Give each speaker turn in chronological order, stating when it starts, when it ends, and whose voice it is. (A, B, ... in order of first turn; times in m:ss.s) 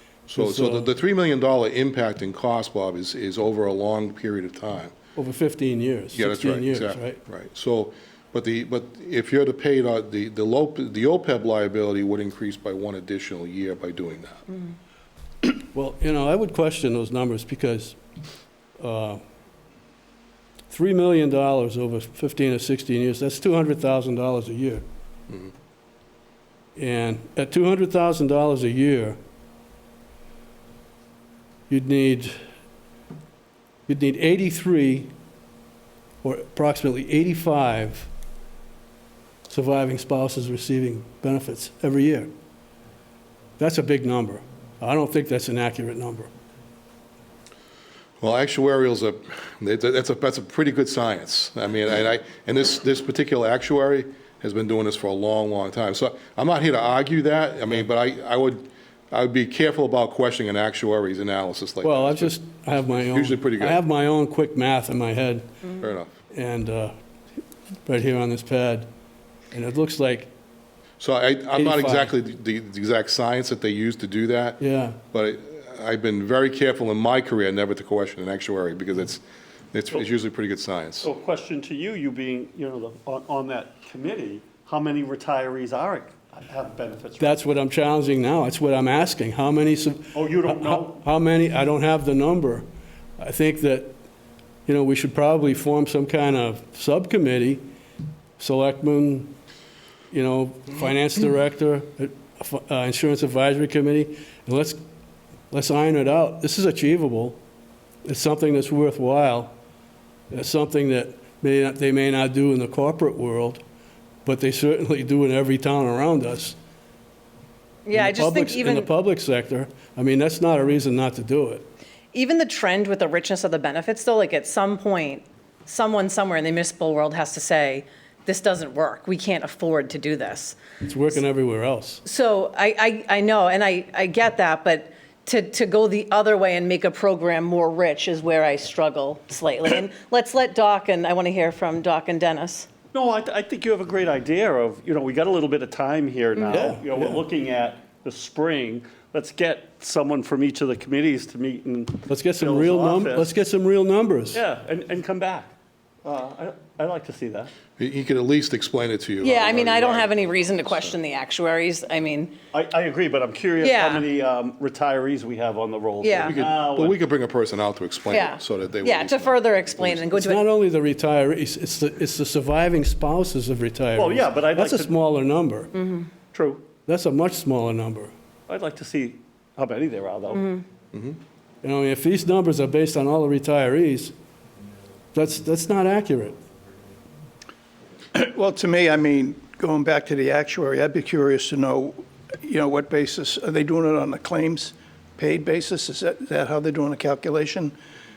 0:00.3-0:04.9 A
0:00.4-0:00.9 B
0:05.2-0:07.2 B
0:06.1-0:14.4 A
0:15.5-0:18.0 B
0:18.8-0:19.2 B
0:20.7-0:24.8 B
0:26.8-0:29.2 B
0:31.7-0:32.4 B
0:33.9-0:35.1 B
0:36.2-0:38.1 B
0:39.5-0:42.3 B
0:43.6-0:46.3 B
0:48.2-1:03.8 A
1:01.8-1:05.7 B
1:05.8-1:06.2 A
1:06.3-1:06.9 B
1:07.8-1:08.9 B
1:09.5-1:10.3 B
1:11.0-1:21.1 A
1:11.5-1:12.1 B
1:14.6-1:15.0 B
1:21.0-1:27.4 C
1:27.2-1:32.7 B
1:30.1-1:31.0 C
1:33.2-1:34.0 B
1:34.6-1:37.6 B
1:38.4-1:39.4 B
1:40.1-1:44.8 B
1:45.5-1:47.4 B
1:48.0-1:49.5 B
1:50.3-1:53.6 B
1:54.2-1:56.6 B
1:57.8-1:58.9 D
1:57.9-2:01.7 B
2:02.1-2:10.6 D
2:10.8-2:12.0 B
2:12.0-2:22.7 D
2:22.9-2:33.3 C
2:26.4-2:26.7 D
2:26.5-2:27.2 B
2:32.0-2:34.4 B
2:34.3-2:35.5 C
2:36.0-2:37.5 C
2:37.8-2:41.0 A
2:39.2-2:42.3 D
2:42.5-2:47.0 C
2:43.6-2:44.0 D
2:46.0-2:46.4 D
2:46.2-2:50.2 A
2:48.1-2:50.4 D
2:50.1-2:55.7 B
2:53.9-2:54.9 C
2:55.7-2:56.1 D
2:56.3-2:56.6 C
2:56.8-2:58.1 B
2:58.5-3:00.6 C
3:00.3-3:00.6 D
3:01.6-3:04.1 B
3:05.1-3:06.4 B
3:08.1-3:17.7 E